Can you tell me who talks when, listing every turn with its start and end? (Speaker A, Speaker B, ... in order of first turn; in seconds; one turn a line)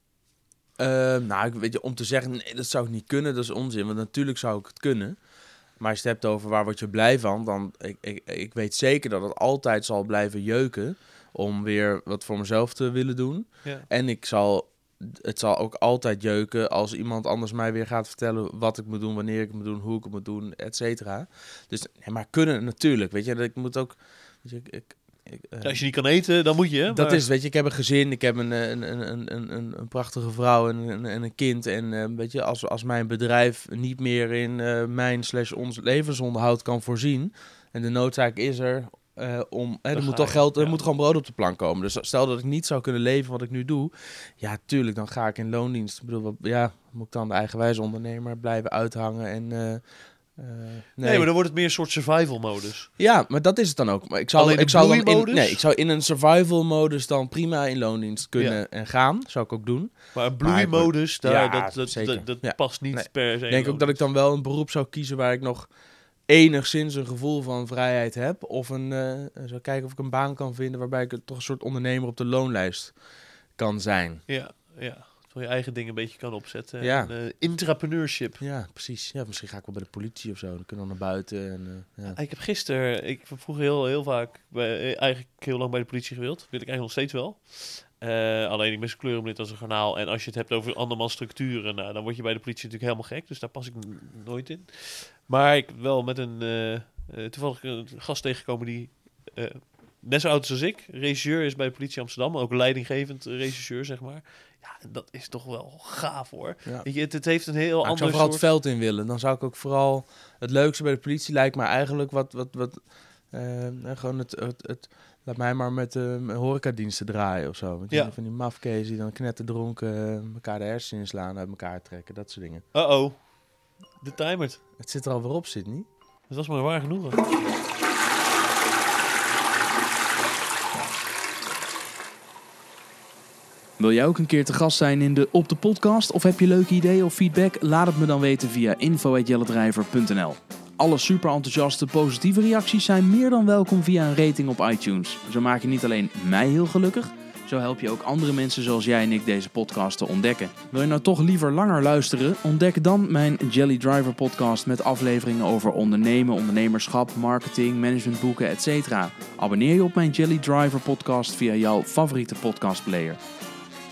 Speaker A: 0.8-25.9
Speaker B: 25.6-27.3
Speaker A: 26.9-51.3
Speaker B: 39.9-40.8
Speaker B: 51.0-52.9
Speaker A: 53.0-74.2
Speaker B: 54.3-55.6
Speaker B: 58.3-58.6
Speaker B: 60.1-64.1
Speaker B: 74.3-78.4
Speaker A: 76.8-77.1
Speaker A: 78.4-82.2
Speaker B: 82.1-108.5
Speaker A: 107.8-122.6
Speaker B: 117.9-118.2
Speaker B: 122.7-124.6
Speaker A: 124.8-125.8
Speaker B: 126.3-127.2
Speaker C: 133.8-163.2